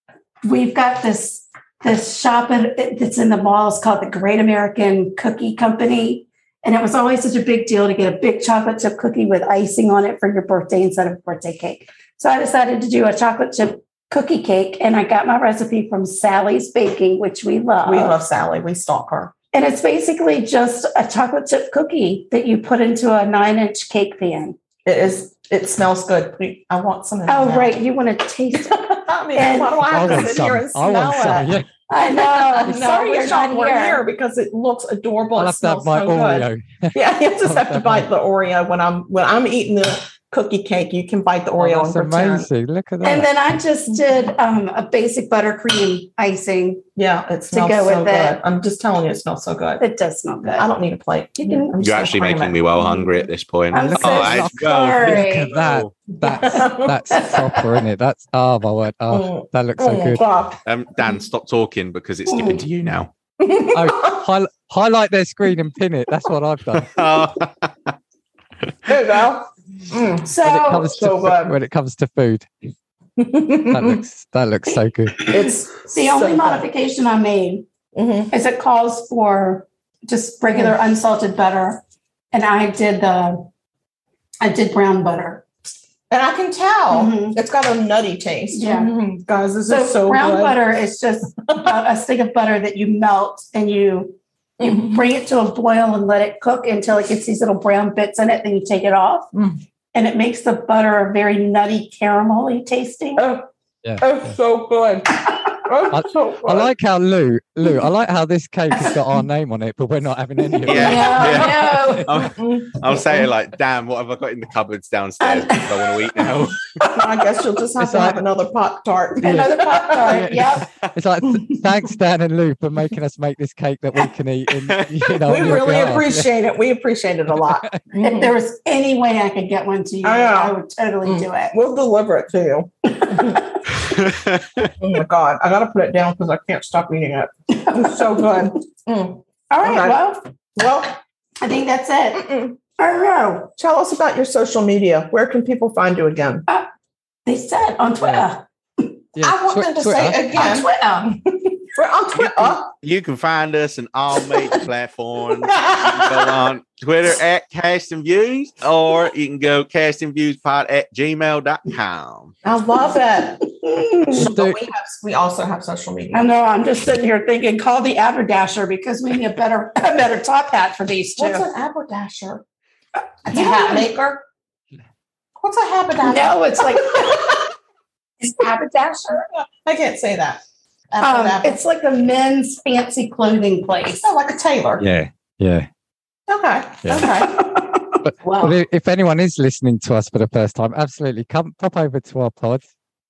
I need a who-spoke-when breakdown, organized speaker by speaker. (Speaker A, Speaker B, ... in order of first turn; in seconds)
Speaker A: 0.4-18.1, 19.5-24.6, 27.3-30.3, 31.9-34.0, 43.0-46.8, 47.5-48.4, 49.8-50.7, 51.4-51.7, 53.7-55.5, 56.5-57.8, 62.3-62.6, 70.2-70.9, 75.5-77.6, 78.3-81.8, 82.3-83.5, 84.4-85.5, 86.9-87.4, 88.5-88.9, 89.7-99.3, 99.9-103.2, 110.7-112.0, 115.2-117.0, 119.2-120.7, 128.0-131.6, 133.0-133.4, 137.5-138.4, 139.5-140.2, 141.4-143.5, 147.2-148.9, 150.3-151.2, 163.5-164.3, 166.1-171.5, 173.3-173.9, 176.0-177.4, 178.2-179.2, 181.0-184.1, 187.0-188.5
Speaker B: 17.8-19.3, 24.8-27.8, 28.6-31.5, 32.2-42.5, 47.0-49.8, 50.4-53.1, 56.2-57.0, 59.1-60.6, 63.4-64.2, 68.8-71.5, 73.2-74.0, 75.3-76.7, 77.9-78.3, 86.1-90.6, 94.6-95.0, 103.2-103.5, 104.0-106.7, 112.2-113.3, 116.9-120.3, 121.2-121.7, 125.2-128.3, 130.0-133.4, 134.8-141.0, 142.1-142.5, 143.6-146.4, 149.2-152.7, 155.5-156.3, 162.4-163.4, 164.1-166.3, 171.2-172.4, 173.2-174.2, 175.3-177.4, 179.6-181.6, 184.0-184.8, 186.3-187.4
Speaker C: 29.9-31.6, 35.4-38.1, 41.6-43.3, 53.8-60.2, 63.7-67.0, 70.4-72.5, 73.7-75.3, 103.8-104.3, 105.9-112.0, 117.8-118.2, 120.1-126.3, 127.3-127.8, 148.0-148.3, 149.2-150.2, 164.2-164.6, 184.8-185.7, 186.8-187.1, 188.0-192.7
Speaker D: 51.8-55.9, 60.6-63.1, 66.7-67.9, 110.6-116.8, 124.7-125.0, 133.8-134.7, 152.1-162.3